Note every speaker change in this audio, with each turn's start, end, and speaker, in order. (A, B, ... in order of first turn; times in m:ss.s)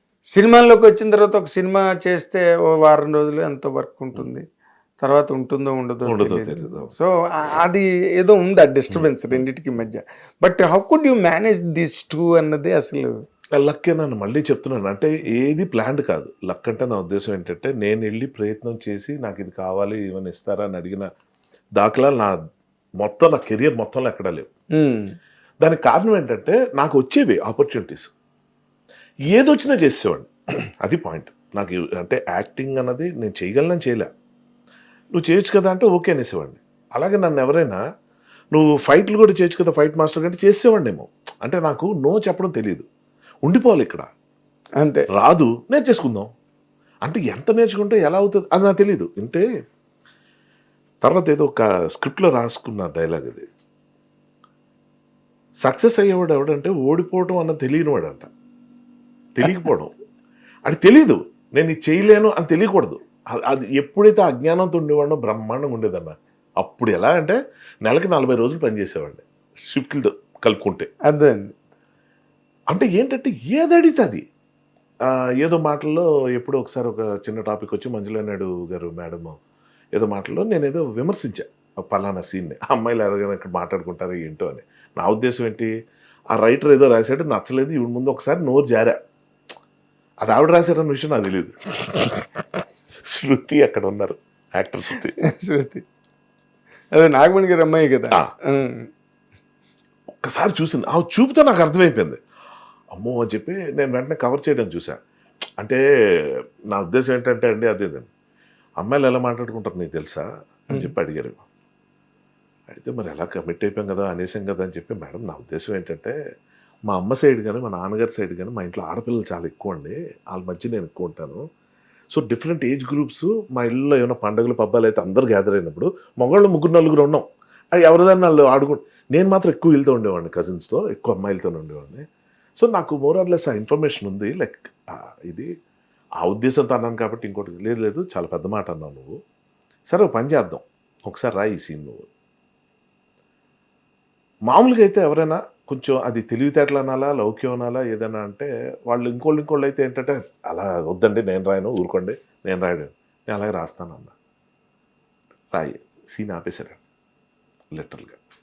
0:00.3-0:04.4 A
0:05.0-0:13.1 A
0:06.0-0:06.9 B
0:08.9-0:09.4 B
0:13.6-0:21.0 B
0:21.8-0:22.3 B
0:23.0-0:24.5 B
0:24.8-0:25.1 A
0:25.6-0:28.1 B
0:29.3-0:30.3 B
0:30.8-0:34.1 B
0:35.1-0:37.8 B
0:38.5-0:42.8 B
0:43.4-0:44.1 B
0:45.1-0:46.3 B
0:47.0-0:49.4 B
0:51.0-0:53.4 B
0:55.6-0:58.3 B
0:59.4-0:59.9 B
1:00.6-1:10.9 B
1:11.1-1:11.6 A
1:12.7-1:14.2 B
1:15.1-1:19.4 B
1:19.9-1:25.7 B
1:26.3-1:29.0 B
1:30.2-1:32.4 B
1:33.0-1:35.1 B
1:35.2-1:35.8 A
1:36.9-1:38.9 A
1:40.2-1:42.2 B
1:42.9-1:45.0 B
1:46.7-1:48.1 B
1:48.8-1:51.4 B
1:52.7-1:56.1 B
1:56.9-2:01.4 B
2:02.1-2:12.0 B
2:12.6-2:15.5 B
2:16.2-2:19.1 B
2:19.9-2:22.1 B
2:24.5-2:34.1 B
2:35.5-2:36.8 B
2:37.7-2:38.2 B